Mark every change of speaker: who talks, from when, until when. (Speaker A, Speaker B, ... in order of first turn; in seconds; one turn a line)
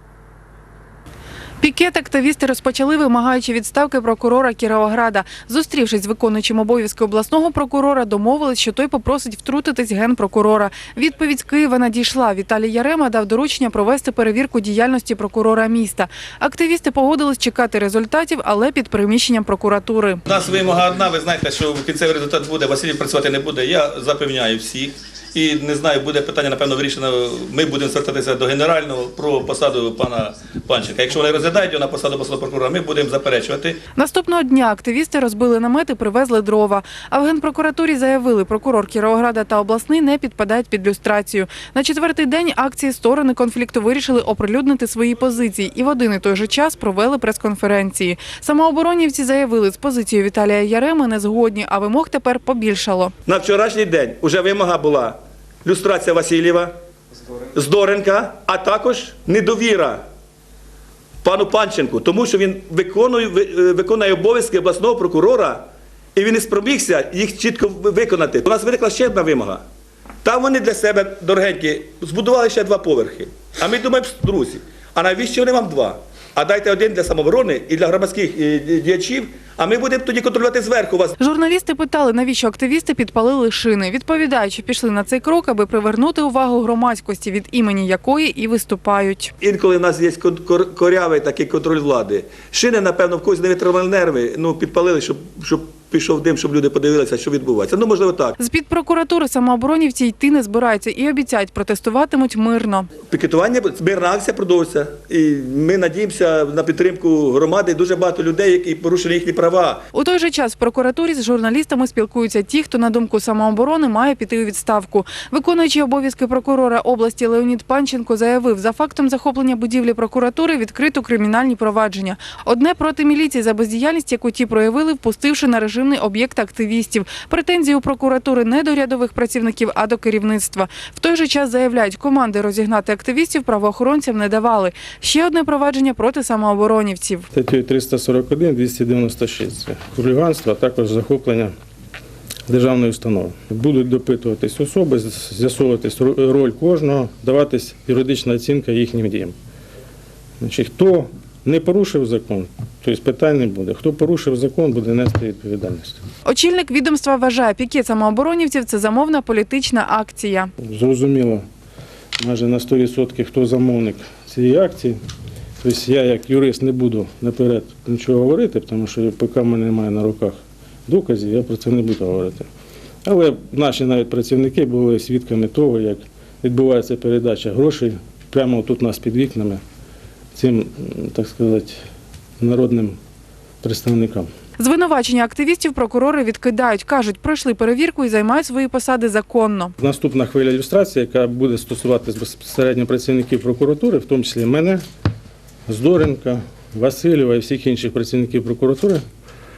Speaker A: 1.6-20.2
Speaker B: 20.3-33.8
Speaker A: 33.9-53.2
Speaker B: 53.3-56.8
Speaker B: 57.5-60.0
Speaker B: 61.2-69.7
Speaker B: 70.2-81.2
Speaker A: 81.2-89.3
Speaker B: 89.4-98.4
Speaker A: 98.4-102.9
Speaker B: 103.1-109.8
Speaker A: 109.9-137.3
Speaker C: 137.3-141.5
Speaker C: 142.5-149.3
Speaker C: 150.4-156.0
Speaker A: 156.2-160.5
Speaker C: 160.6-161.4
Speaker C: 162.2-165.0
Speaker C: 165.6-172.5
Speaker C: 173.1-179.6
Speaker C: 180.3-181.8
Speaker C: 182.4-183.0
Speaker C: 183.6-184.3
Speaker A: 184.6-189.8
Speaker C: 189.8-194.8
Speaker C: 195.7-199.0